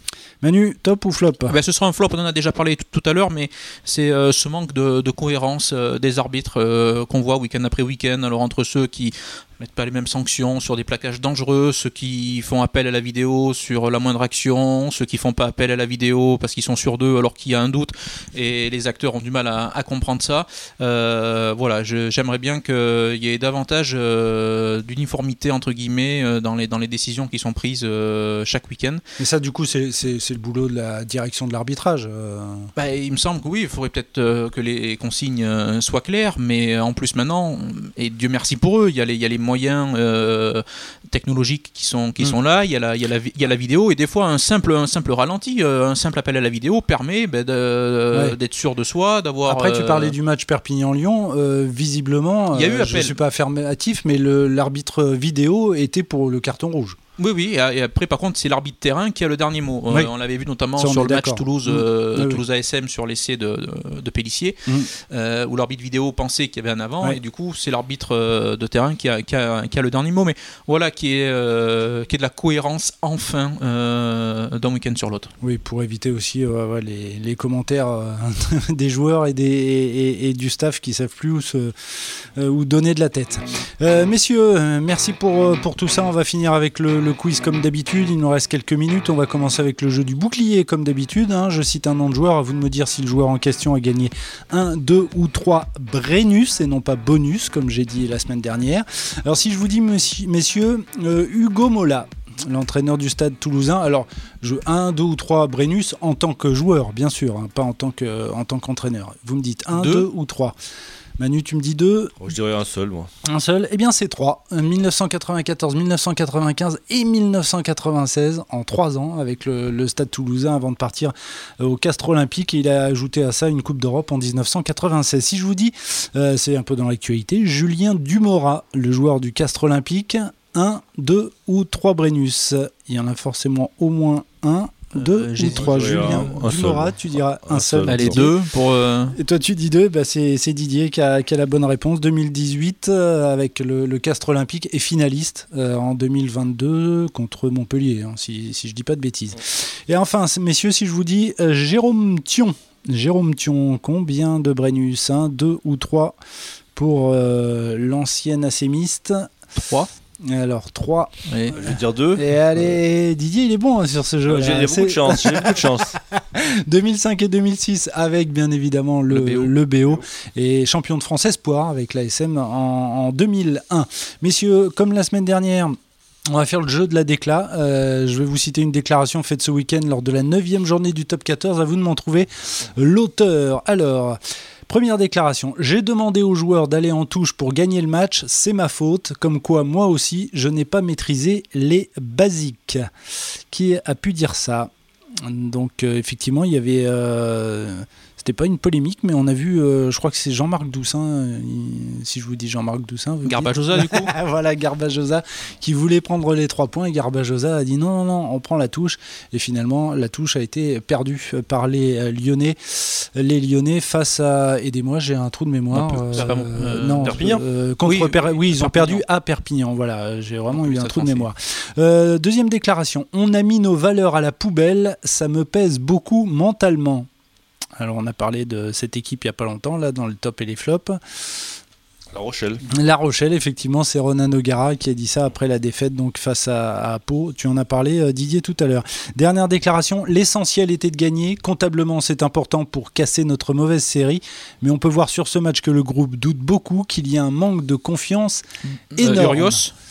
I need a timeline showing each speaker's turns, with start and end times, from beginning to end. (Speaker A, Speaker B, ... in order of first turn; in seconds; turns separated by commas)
Speaker A: 0.4-1.6, Speaker B: 1.5-29.0, Speaker A: 29.2-32.7, Speaker B: 32.8-50.1, Speaker A: 49.5-57.0, Speaker B: 52.5-53.2, Speaker B: 57.2-75.3, Speaker A: 60.8-62.4, Speaker A: 75.4-81.7, Speaker A: 82.3-110.5, Speaker B: 109.8-110.0, Speaker A: 111.2-112.1, Speaker C: 112.2-113.1, Speaker A: 113.2-138.3, Speaker B: 134.9-136.3, Speaker C: 135.5-138.3, Speaker B: 137.9-139.2, Speaker A: 139.1-156.2, Speaker A: 156.8-159.3, Speaker A: 160.2-175.8, Speaker B: 161.3-161.6, Speaker C: 161.6-162.8, Speaker C: 164.3-166.0, Speaker B: 169.1-169.5, Speaker A: 176.3-192.9, Speaker A: 193.5-227.1, Speaker B: 203.2-204.1, Speaker B: 215.7-219.0, Speaker C: 217.0-217.4, Speaker B: 220.5-221.3, Speaker A: 227.8-231.2, Speaker C: 232.1-232.6, Speaker A: 232.7-248.4, Speaker B: 248.9-249.7, Speaker A: 249.0-249.6